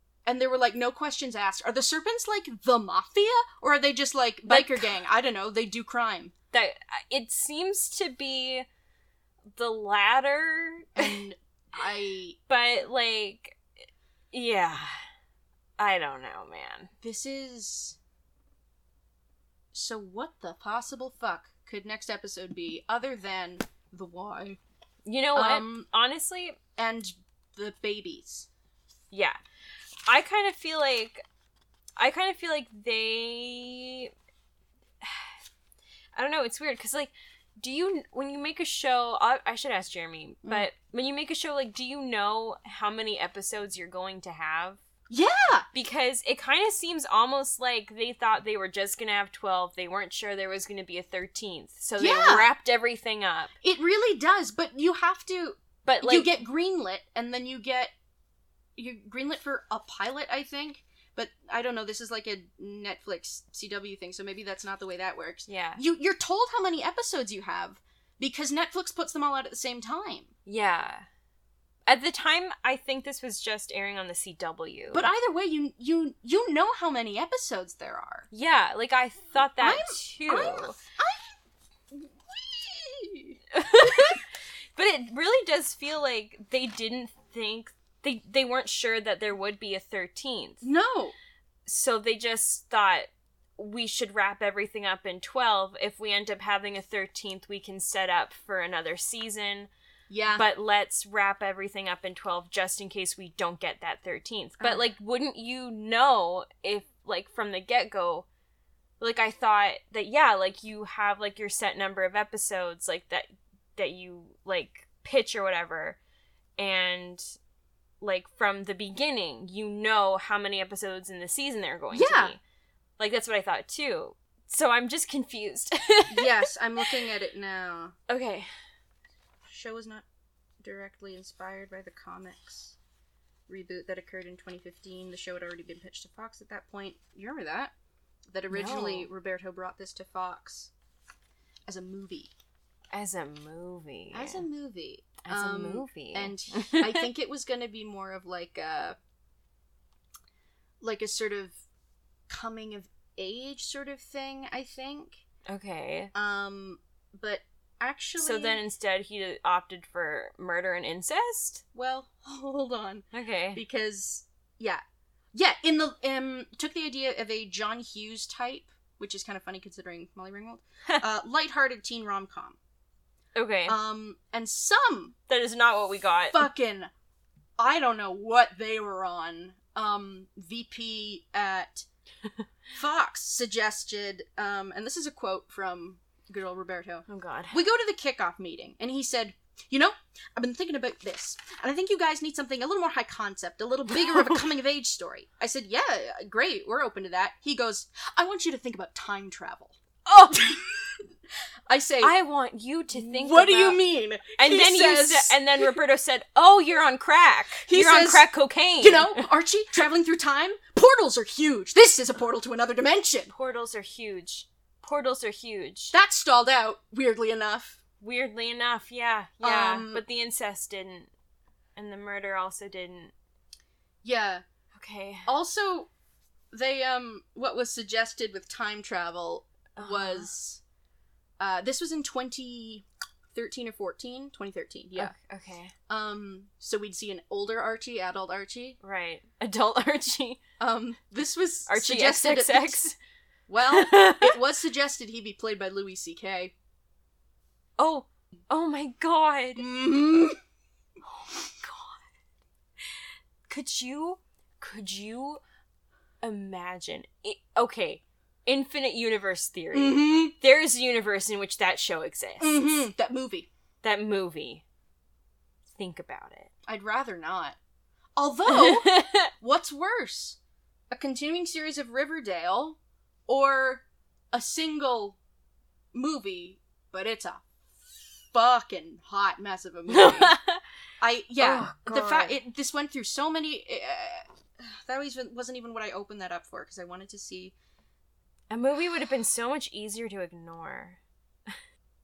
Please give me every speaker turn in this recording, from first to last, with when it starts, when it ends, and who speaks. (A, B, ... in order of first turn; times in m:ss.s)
0:00.3-0:06.3 A
0:04.4-0:05.0 B
0:06.5-0:08.7 B
0:09.6-0:11.2 B
0:11.0-0:12.4 A
0:12.5-0:13.6 B
0:14.3-0:15.0 B
0:15.8-0:16.9 B
0:17.0-0:18.0 A
0:19.7-0:24.6 A
0:25.1-0:26.6 B
0:25.3-0:25.9 A
0:26.8-0:28.5 A
0:29.1-0:29.4 B
0:30.1-0:31.2 B
0:32.0-0:34.1 B
0:35.0-0:35.3 B
0:36.2-0:44.8 B
0:45.1-0:45.7 A
0:45.7-0:53.5 B
0:52.0-0:52.5 A
0:53.6-0:57.9 A
0:55.8-0:56.3 B
0:58.8-1:10.3 A
1:05.5-1:05.8 B
1:10.5-1:11.1 B
1:11.9-1:15.1 B
1:14.9-1:18.3 A
1:18.3-1:20.8 B
1:19.6-1:21.3 A
1:21.9-1:23.4 A
1:23.5-1:24.2 B
1:24.8-1:30.6 B
1:30.6-1:31.2 A
1:31.7-1:39.7 B
1:40.1-1:40.5 A
1:40.3-1:48.3 B
1:44.6-1:44.9 A
1:49.0-1:56.0 B
1:56.6-1:57.4 B
1:58.0-2:02.4 B
2:01.9-2:02.3 A
2:03.0-2:06.9 B
2:06.1-2:07.9 A
2:08.1-2:08.5 B
2:09.5-2:10.0 A
2:10.6-2:12.8 A
2:13.5-2:17.7 A
2:18.3-2:20.7 A
2:18.5-2:19.1 B
2:21.7-2:22.3 A
2:22.9-2:24.4 B
2:24.1-2:29.0 A
2:25.2-2:27.1 B
2:30.8-2:31.6 A
2:32.3-2:35.2 A
2:35.5-2:36.1 B
2:36.1-2:38.6 A
2:38.2-2:41.6 B
2:41.7-2:44.8 A
2:43.1-2:43.6 B
2:45.3-2:52.6 A
2:53.4-2:53.8 B
2:53.7-2:55.2 A
2:55.3-2:56.5 B
2:56.3-2:56.9 A
2:57.6-3:01.9 A
3:02.7-3:21.1 A
3:07.1-3:07.6 B
3:13.9-3:14.4 B
3:21.7-3:22.1 A
3:22.0-3:23.8 B
3:22.9-3:25.7 A
3:24.4-3:29.3 B
3:27.7-3:28.3 A
3:28.8-3:33.3 A
3:33.3-3:36.0 B
3:35.9-3:37.8 A
3:38.0-3:41.1 B
3:39.4-3:40.0 A
3:41.8-3:43.1 B
3:44.0-3:44.4 A
3:44.7-3:45.3 B
3:45.3-3:45.9 A
3:46.5-3:50.6 A
3:49.8-3:50.3 B
3:51.4-3:55.1 A
3:55.0-3:55.7 B
3:55.9-3:58.8 A
3:58.8-4:00.4 B
4:00.6-4:02.8 A
4:01.7-4:03.0 B
4:03.5-4:06.5 A
4:03.7-4:04.4 B
4:07.8-4:09.7 B
4:09.6-4:10.4 A
4:11.1-4:12.0 B
4:13.5-4:15.4 B
4:16.2-4:22.9 B
4:19.7-4:20.3 A
4:22.4-4:23.5 A
4:23.8-4:24.6 B
4:25.7-4:26.5 B
4:26.7-4:27.6 A
4:28.2-4:30.4 A
4:28.5-4:29.3 B
4:30.9-4:35.2 A
4:35.9-4:37.5 A
4:38.3-4:40.4 A
4:39.9-4:40.6 B
4:41.0-4:47.6 A
4:41.4-4:42.4 B
4:48.5-4:51.5 B